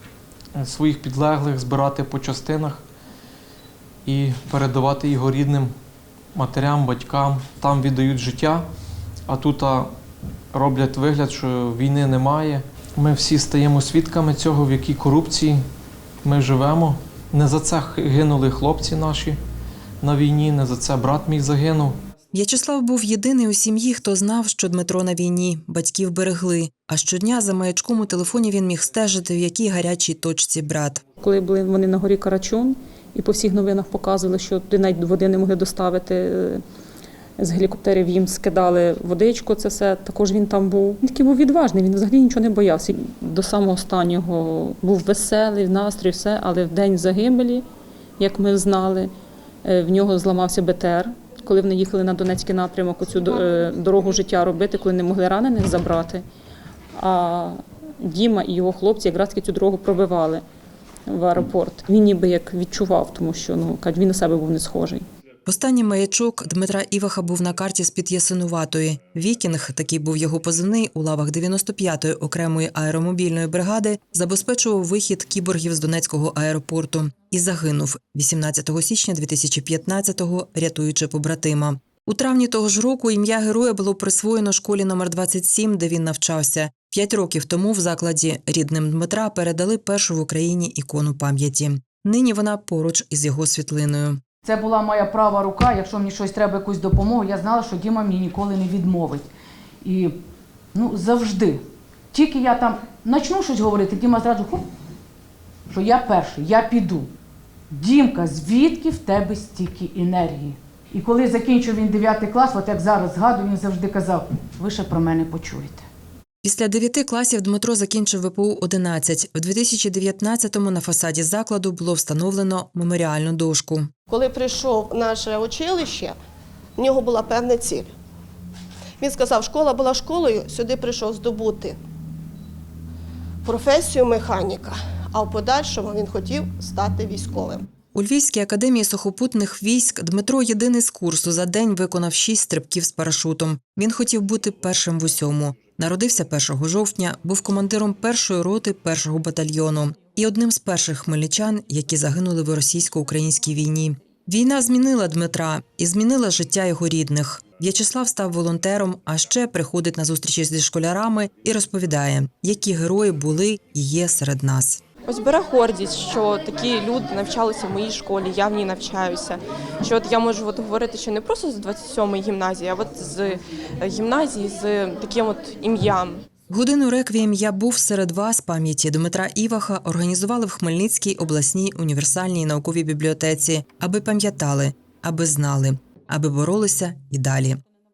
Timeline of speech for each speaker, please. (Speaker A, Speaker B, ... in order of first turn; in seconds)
Speaker A: 0.6-2.8, 4.1-5.7, 6.3-8.7, 9.3-9.9, 10.5-15.6, 16.2-19.4, 20.0-22.0
Speaker B: 22.3-31.0, 65.5-94.2, 116.4-123.9, 137.9-164.8, 176.5-187.6
Speaker C: 31.2-36.6, 37.4-47.6, 48.2-49.1, 49.6-56.2, 57.0-60.4, 61.1-65.1
Speaker D: 94.4-99.3, 99.8-100.1, 100.8-101.6, 102.1-104.6, 105.7-107.1, 107.7-115.8
Speaker E: 124.1-126.2, 126.8-127.9, 129.0-131.8, 133.4-137.7
Speaker F: 165.1-176.2